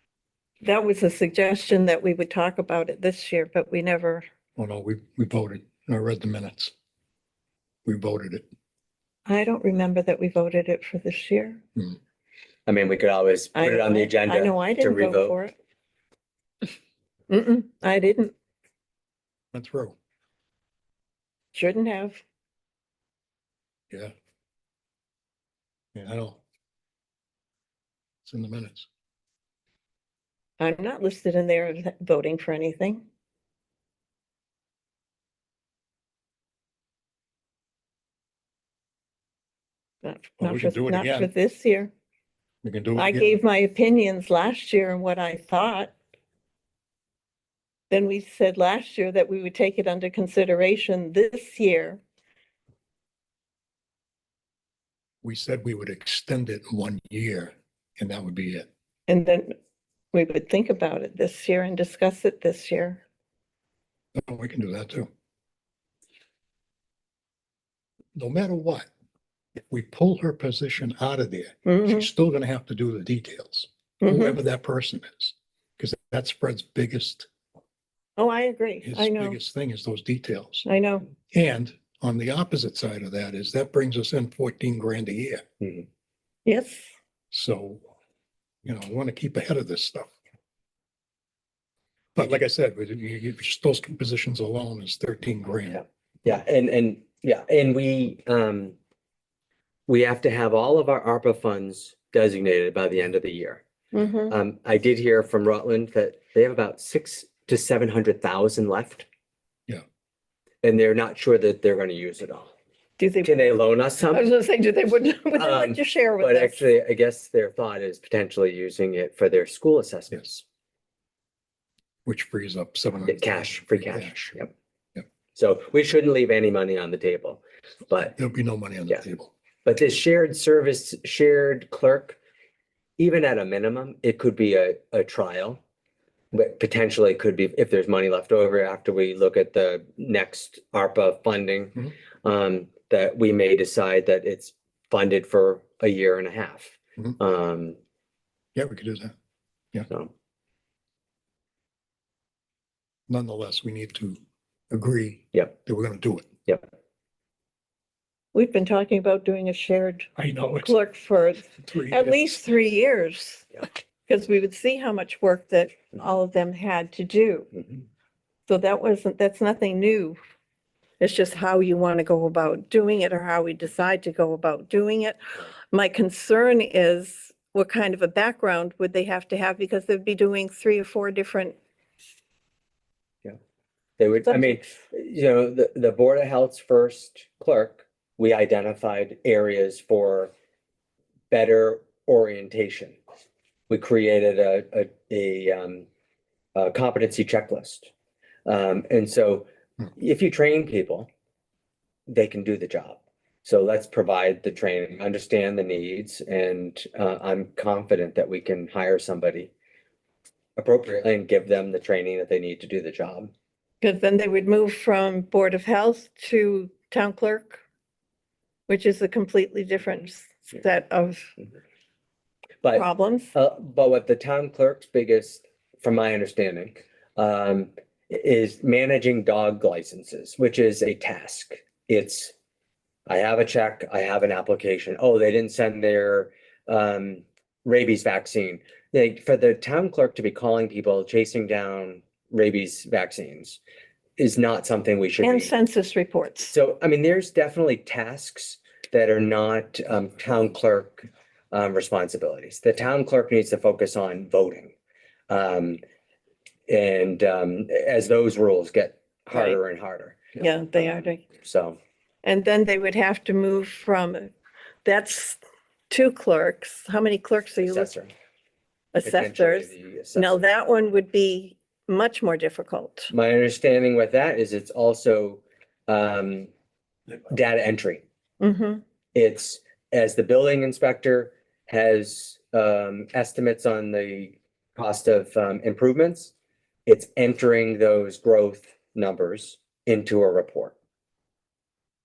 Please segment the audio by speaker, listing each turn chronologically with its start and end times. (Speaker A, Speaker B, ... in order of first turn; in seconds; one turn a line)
Speaker A: 0.6-4.2
Speaker B: 4.5-6.7
Speaker B: 7.8-8.4
Speaker A: 9.2-11.6
Speaker C: 12.7-15.3
Speaker A: 13.5-15.5
Speaker A: 17.3-18.3
Speaker B: 19.5-19.9
Speaker A: 21.5-22.2
Speaker B: 25.9-26.4
Speaker B: 28.2-28.9
Speaker A: 30.6-33.0
Speaker A: 40.0-41.9
Speaker B: 40.4-41.3
Speaker B: 42.6-43.4
Speaker A: 43.0-45.9
Speaker A: 47.9-52.0
Speaker B: 55.2-58.7
Speaker A: 59.1-59.5
Speaker A: 60.1-63.0
Speaker B: 64.1-65.1
Speaker B: 68.1-68.9
Speaker B: 69.7-77.3
Speaker A: 71.6-72.1
Speaker A: 74.0-74.4
Speaker A: 78.2-79.4
Speaker B: 78.8-80.6
Speaker A: 80.6-81.0
Speaker B: 81.3-85.5
Speaker C: 85.6-85.8
Speaker A: 86.5-86.9
Speaker B: 87.3-87.8
Speaker B: 88.6-90.1
Speaker B: 92.2-95.8
Speaker C: 95.7-98.8
Speaker C: 99.9-103.6
Speaker A: 103.9-104.4
Speaker C: 104.3-109.1
Speaker C: 110.6-112.5
Speaker A: 113.0-113.5
Speaker C: 113.2-114.3
Speaker A: 114.1-116.7
Speaker C: 115.3-120.4
Speaker B: 122.0-124.1
Speaker C: 123.0-124.5
Speaker C: 125.3-128.2
Speaker B: 128.1-129.3
Speaker C: 129.6-132.2
Speaker C: 133.0-135.6
Speaker C: 136.3-147.8
Speaker B: 148.5-149.1
Speaker B: 153.1-154.2
Speaker B: 154.7-156.3
Speaker A: 158.3-160.1
Speaker B: 160.2-160.8
Speaker A: 160.6-167.5
Speaker B: 161.5-162.4
Speaker A: 168.5-170.2
Speaker A: 171.0-181.6
Speaker C: 184.0-190.3
Speaker A: 184.2-184.6
Speaker C: 191.3-193.0
Speaker C: 193.7-195.9
Speaker C: 196.5-197.9
Speaker C: 198.4-201.1
Speaker C: 202.1-209.5
Speaker C: 210.6-213.3
Speaker A: 213.8-217.6
Speaker A: 218.7-221.3
Speaker C: 222.6-232.3
Speaker A: 222.7-223.3
Speaker C: 233.1-243.6
Speaker C: 244.2-245.5
Speaker A: 245.2-246.5
Speaker C: 246.5-254.7
Speaker C: 255.3-255.8
Speaker C: 256.7-261.8
Speaker A: 260.4-261.2
Speaker A: 262.2-264.3
Speaker A: 264.8-265.4
Speaker A: 265.9-267.9
Speaker C: 267.6-268.1
Speaker A: 268.9-273.1
Speaker C: 269.0-270.4
Speaker C: 273.1-276.5
Speaker C: 277.3-278.0
Speaker A: 278.4-278.8
Speaker C: 279.1-286.3
Speaker C: 286.9-290.7